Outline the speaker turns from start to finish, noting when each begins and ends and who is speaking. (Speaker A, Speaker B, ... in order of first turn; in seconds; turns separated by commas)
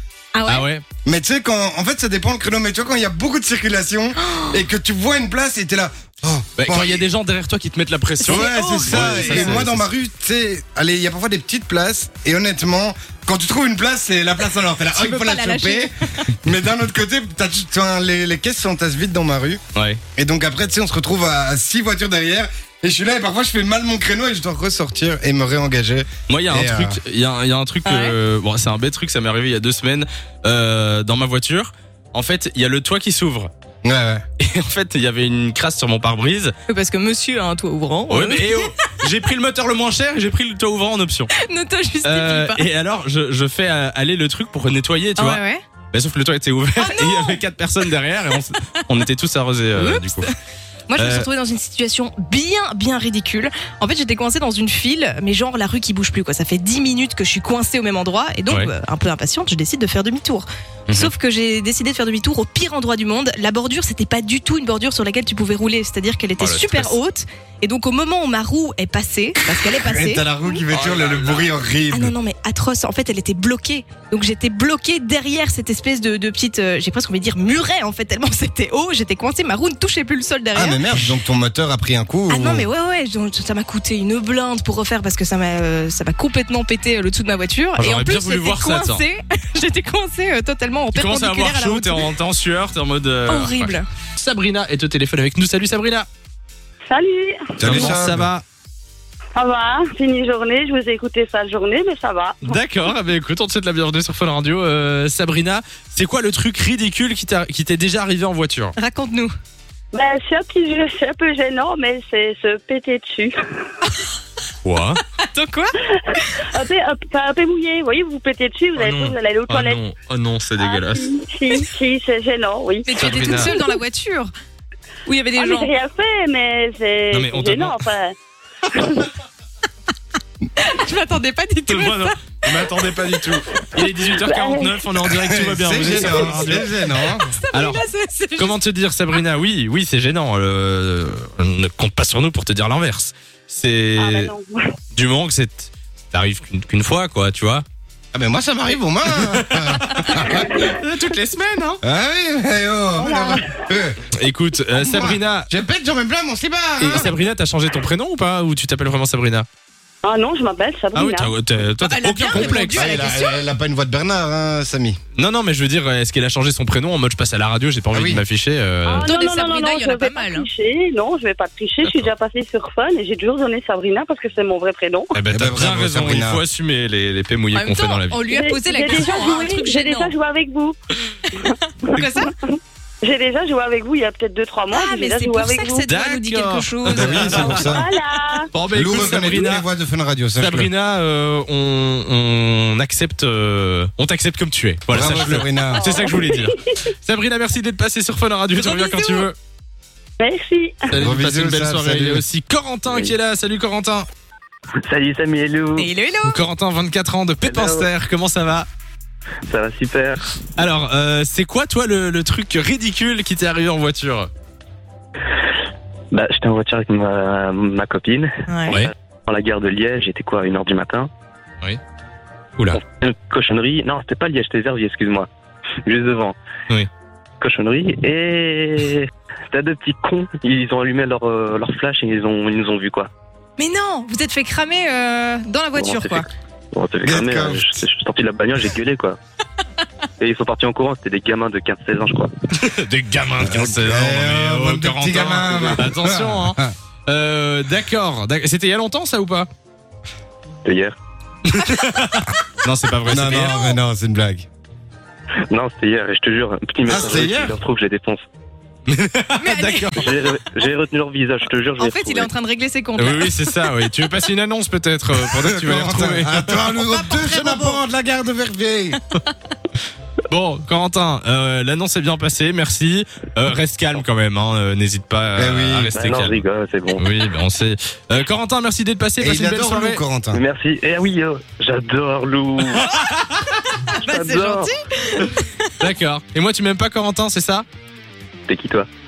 Speaker A: 0.3-0.7, Speaker B: 0.5-0.8, Speaker C: 1.0-7.0, Speaker A: 4.2-4.5, Speaker B: 6.6-9.8, Speaker C: 8.2-19.6, Speaker A: 8.3-9.6, Speaker A: 14.9-16.3, Speaker B: 19.7-20.0, Speaker C: 20.1-27.0, Speaker B: 26.3-33.5, Speaker A: 27.8-28.2, Speaker C: 33.8-34.2, Speaker B: 34.4-36.5, Speaker A: 36.7-38.9, Speaker B: 38.1-41.3, Speaker A: 41.3-42.7, Speaker B: 42.0-50.3, Speaker A: 45.2-45.6, Speaker A: 46.8-49.0, Speaker A: 49.7-50.4, Speaker A: 50.9-70.2, Speaker B: 51.0-51.3, Speaker B: 66.4-66.9, Speaker C: 69.7-72.1, Speaker B: 70.7-71.5, Speaker A: 71.9-80.8, Speaker C: 80.5-82.7, Speaker A: 82.3-92.1, Speaker B: 87.8-89.0, Speaker B: 90.9-96.1, Speaker A: 93.3-93.9, Speaker D: 96.9-97.8, Speaker C: 97.6-98.3, Speaker B: 97.6-98.5, Speaker D: 99.3-102.6, Speaker B: 102.4-108.8, Speaker A: 108.8-109.3, Speaker D: 109.9-113.3, Speaker B: 114.6-115.0, Speaker A: 115.2-116.5, Speaker D: 116.1-119.8, Speaker B: 118.8-121.1, Speaker D: 120.6-123.8, Speaker A: 122.8-124.3, Speaker B: 123.0-123.5, Speaker A: 125.0-125.7, Speaker D: 125.3-128.1, Speaker B: 127.1-127.8, Speaker D: 128.7-129.1, Speaker A: 130.6-132.7, Speaker B: 131.7-137.8, Speaker D: 133.8-134.8, Speaker C: 135.2-137.3, Speaker A: 137.2-138.6, Speaker B: 138.4-144.3, Speaker D: 144.0-144.5, Speaker B: 144.9-147.6, Speaker C: 148.1-150.7, Speaker B: 149.2-151.8, Speaker C: 151.8-154.0, Speaker D: 153.0-153.5, Speaker B: 154.1-155.5, Speaker C: 154.8-157.1, Speaker B: 156.8-159.5, Speaker D: 160.0-161.3, Speaker B: 160.9-163.0, Speaker A: 161.8-163.4, Speaker C: 162.2-165.0, Speaker B: 165.2-169.1, Speaker C: 167.9-168.2, Speaker D: 168.8-175.1, Speaker A: 169.0-170.5, Speaker B: 175.1-178.2, Speaker C: 175.3-176.4, Speaker A: 177.5-180.1, Speaker D: 178.3-180.7, Speaker D: 181.3-182.3, Speaker A: 181.5-182.3, Speaker D: 183.0-185.9, Speaker A: 184.7-187.2, Speaker B: 185.8-187.8, Speaker C: 186.9-187.9, Speaker D: 187.3-188.5, Speaker B: 188.5-189.6, Speaker C: 188.7-190.7, Speaker B: 190.4-199.3, Speaker C: 194.9-196.0, Speaker D: 195.7-196.5, Speaker A: 198.5-199.3, Speaker D: 200.2-200.8, Speaker B: 200.9-204.1, Speaker C: 200.9-202.2, Speaker E: 202.9-203.1, Speaker E: 204.8-205.9, Speaker A: 205.8-206.4, Speaker B: 206.2-208.7, Speaker E: 207.4-207.9, Speaker E: 209.5-210.2, Speaker B: 210.6-214.3, Speaker E: 216.1-221.1, Speaker A: 218.5-218.8, Speaker E: 222.7-225.3, Speaker E: 225.8-226.3, Speaker E: 227.4-233.1, Speaker A: 233.6-236.3, Speaker E: 235.7-239.2, Speaker C: 237.0-237.7, Speaker E: 240.2-242.3, Speaker B: 242.5-249.5, Speaker C: 243.4-246.7, Speaker E: 250.6-250.9, Speaker B: 251.5-253.7, Speaker C: 253.0-254.4, Speaker E: 255.5-258.2, Speaker C: 256.9-257.6, Speaker B: 258.9-260.2, Speaker A: 259.4-260.1, Speaker E: 259.9-262.3, Speaker A: 261.8-263.7, Speaker B: 263.0-266.6, Speaker C: 265.3-269.0, Speaker A: 266.8-267.8, Speaker B: 270.3-276.4, Speaker C: 275.4-275.9, Speaker E: 275.9-277.1, Speaker B: 276.9-280.0, Speaker C: 279.2-280.4, Speaker E: 280.3-282.9, Speaker B: 283.0-283.4, Speaker A: 283.7-285.5, Speaker E: 284.0-284.7, Speaker B: 285.8-287.6, Speaker E: 288.5-288.9